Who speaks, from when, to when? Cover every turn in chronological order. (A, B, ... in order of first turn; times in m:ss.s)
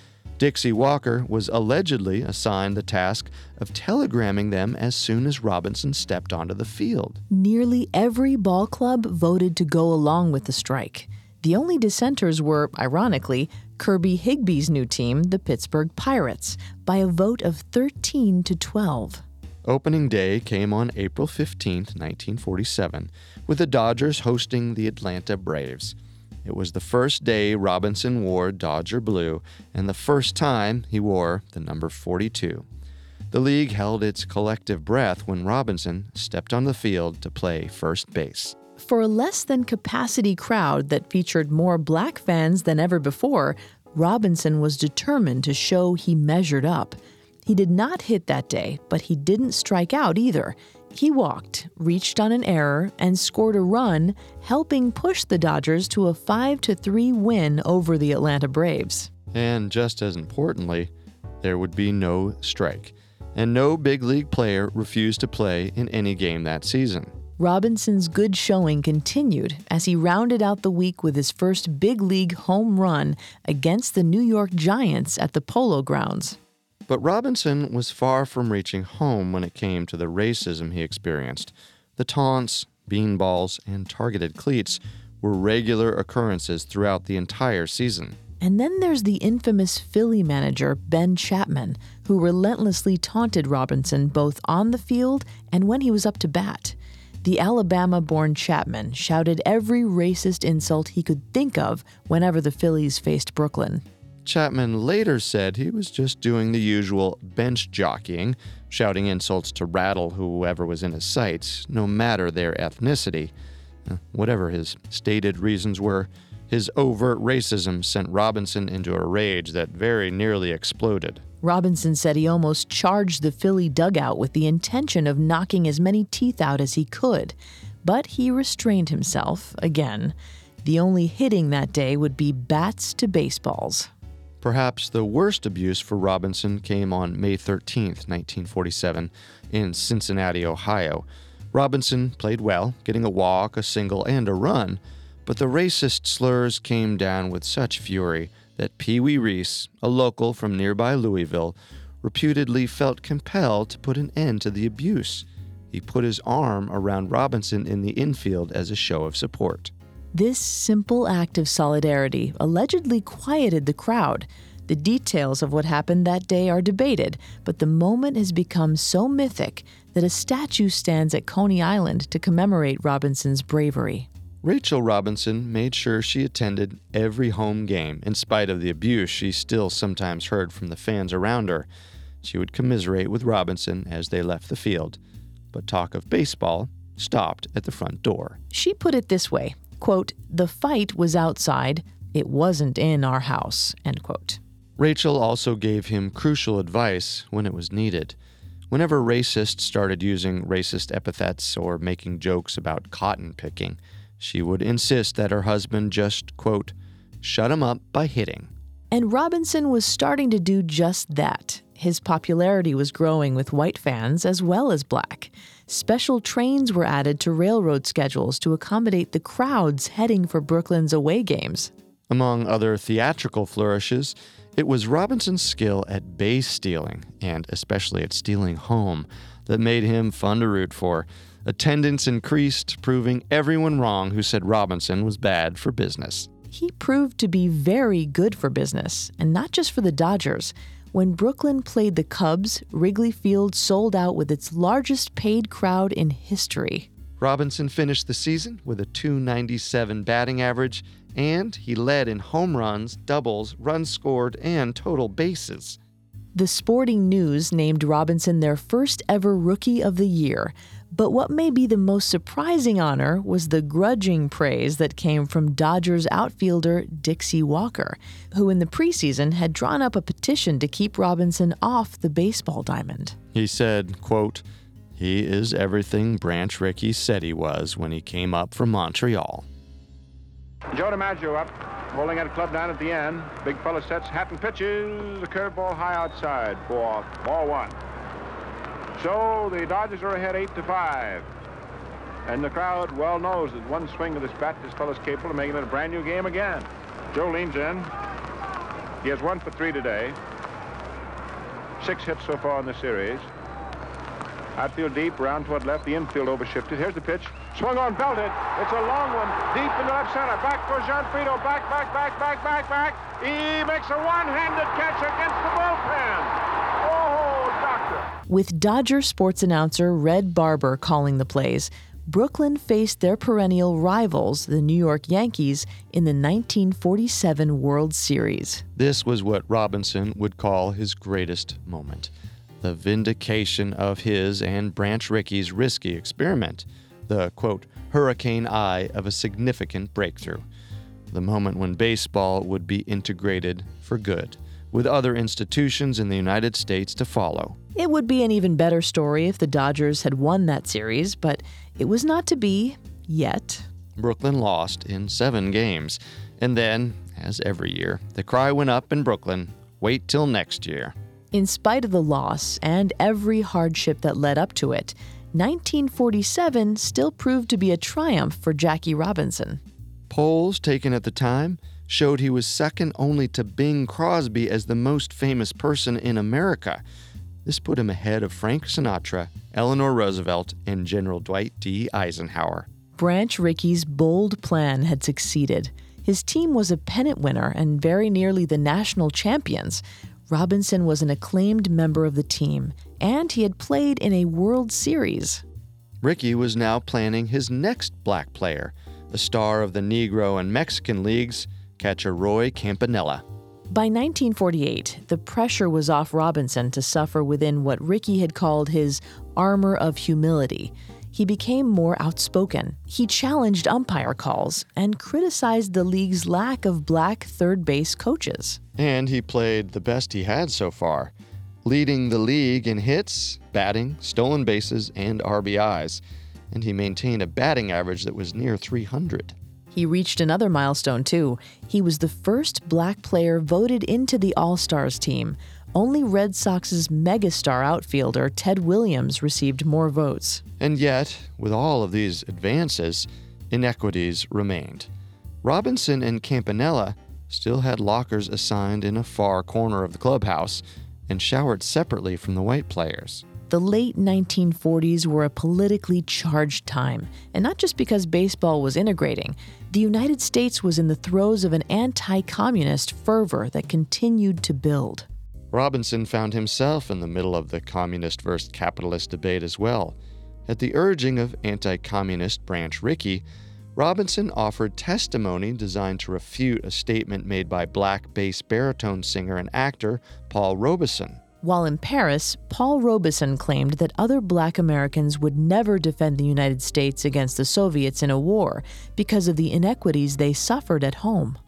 0:00.4-0:07.2 A
0:07.3-0:19.2 B
0:19.6-0:32.6 A
0:33.3-0:38.6 A
0:38.8-0:59.1 B
0:59.3-1:07.1 A
1:07.4-1:16.4 B
1:16.9-1:28.2 A
1:28.4-1:43.8 B
1:44.2-1:53.3 A
1:53.8-2:01.2 A
2:01.4-2:13.9 B
2:14.4-2:39.7 A
2:40.1-2:54.1 B
2:54.4-3:01.7 A
3:02.2-3:05.0 A
3:05.5-3:08.4 A
3:08.5-3:14.4 B
3:14.8-3:18.2 A
3:18.7-3:28.5 A
3:28.9-3:41.7 B
3:42.1-3:56.3 A
3:56.5-4:06.9 B
4:07.2-4:15.8 A
4:16.3-4:33.2 B
4:33.3-4:34.4 A
4:35.0-4:39.5 A
4:40.7-4:47.8 C
4:49.0-4:51.3 C
4:52.3-4:57.9 C
4:59.0-5:00.2 C
5:01.8-5:03.3 C
5:04.6-5:18.1 C
5:18.3-5:28.6 B
5:28.8-5:40.4 A
5:41.1-5:47.6 A
5:47.7-5:53.6 B
5:54.0-6:00.9 A
6:01.3-6:09.6 B
6:10.1-6:16.8 A
6:17.4-6:22.7 A
6:23.0-6:35.4 B
6:36.0-6:43.2 A
6:43.7-6:58.6 B
6:58.8-7:01.1 A
7:01.6-7:09.4 A
7:09.7-7:20.4 B
7:20.6-7:24.9 A
7:25.4-7:33.2 A
7:33.5-7:45.1 B
7:45.5-7:50.0 A
7:50.5-7:53.2 A
7:53.7-8:01.2 A
8:01.4-8:11.4 B